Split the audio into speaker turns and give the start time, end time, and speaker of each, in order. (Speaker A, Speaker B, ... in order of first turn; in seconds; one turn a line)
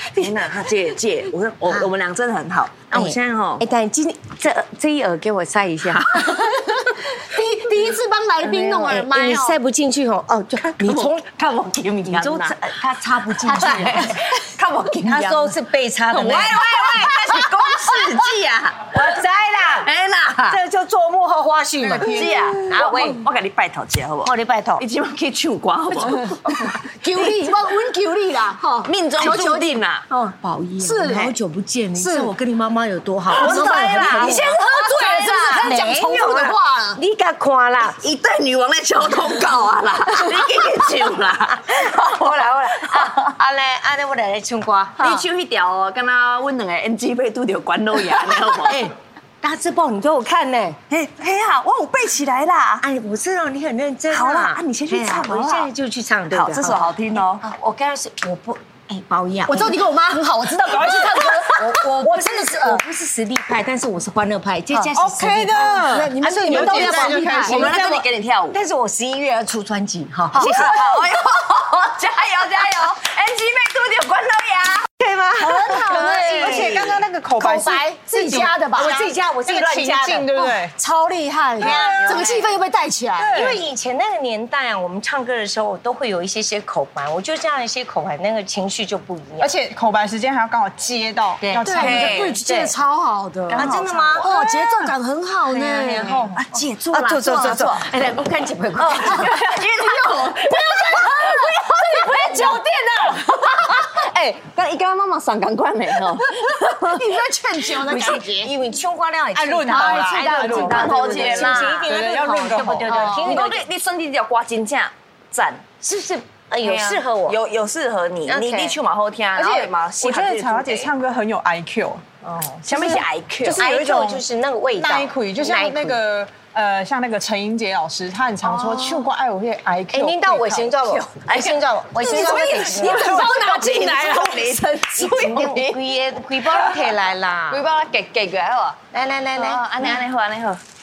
Speaker A: 0.1-3.6
Speaker B: 2.9-6.3
Speaker A: 5.9-6.1
Speaker C: 6.1-9.6
Speaker A: 8.4-8.9
Speaker B: 8.5-11.3
Speaker A: 10.7-12.6
Speaker B: 12.0-14.3
Speaker C: 13.4-14.3
Speaker A: 13.6-15.6
Speaker B: 15.0-17.3
Speaker A: 16.1-19.1
Speaker B: 18.9-19.9
Speaker A: 19.8-20.6
Speaker B: 20.4-23.2
Speaker C: 21.8-22.8
Speaker A: 21.9-27.4
Speaker B: 24.2-24.8
Speaker C: 26.7-29.8
Speaker A: 28.8-30.0
Speaker B: 30.1-34.6
Speaker C: 30.8-31.3
Speaker C: 32.0-32.3
Speaker A: 33.3-35.8
Speaker C: 33.3-37.0
Speaker B: 35.6-38.0
Speaker A: 37.9-43.3
Speaker B: 41.5-45.2
Speaker A: 45.0-48.9
Speaker B: 48.6-50.8
Speaker A: 50.9-52.8
Speaker B: 52.8-56.9
Speaker A: 54.1-55.7
Speaker A: 56.3-57.4
Speaker B: 57.4-59.8
Speaker C: 59.5-62.8
Speaker B: 61.5-71.0
Speaker D: 64.9-67.7
Speaker C: 65.8-67.7
Speaker A: 66.7-68.6
Speaker C: 70.3-70.7
Speaker A: 70.3-74.9
Speaker B: 75.0-77.0
Speaker C: 75.5-79.1
Speaker A: 75.5-76.7
Speaker D: 75.7-80.7
Speaker B: 78.3-80.3
Speaker C: 80.3-83.4
Speaker B: 81.6-82.5
Speaker D: 81.6-82.3
Speaker A: 81.7-82.3
Speaker D: 83.2-83.6
Speaker B: 83.3-89.5
Speaker D: 89.4-92.3
Speaker B: 91.4-92.7
Speaker C: 91.6-93.7
Speaker A: 91.7-92.4
Speaker A: 93.5-94.9
Speaker B: 93.5-94.3
Speaker C: 94.2-96.3
Speaker B: 95.5-99.5
Speaker A: 95.8-97.9
Speaker A: 98.8-102.6
Speaker C: 99.8-103.8
Speaker A: 103.1-107.1
Speaker C: 106.3-108.5
Speaker B: 107.8-113.7
Speaker D: 109.3-113.3
Speaker C: 109.7-111.8
Speaker A: 110.4-111.9
Speaker C: 112.9-113.4
Speaker A: 112.9-115.6
Speaker B: 115.8-117.4
Speaker A: 116.6-120.9
Speaker B: 118.3-118.8
Speaker D: 119.3-122.0
Speaker A: 122.3-123.7
Speaker D: 122.6-124.2
Speaker B: 123.5-126.0
Speaker D: 124.7-130.8
Speaker B: 128.4-128.9
Speaker B: 129.9-137.6
Speaker A: 130.8-135.9
Speaker C: 132.1-134.3
Speaker D: 133.0-133.7
Speaker A: 136.5-136.9
Speaker A: 137.5-138.8
Speaker B: 138.9-139.7
Speaker A: 139.3-140.6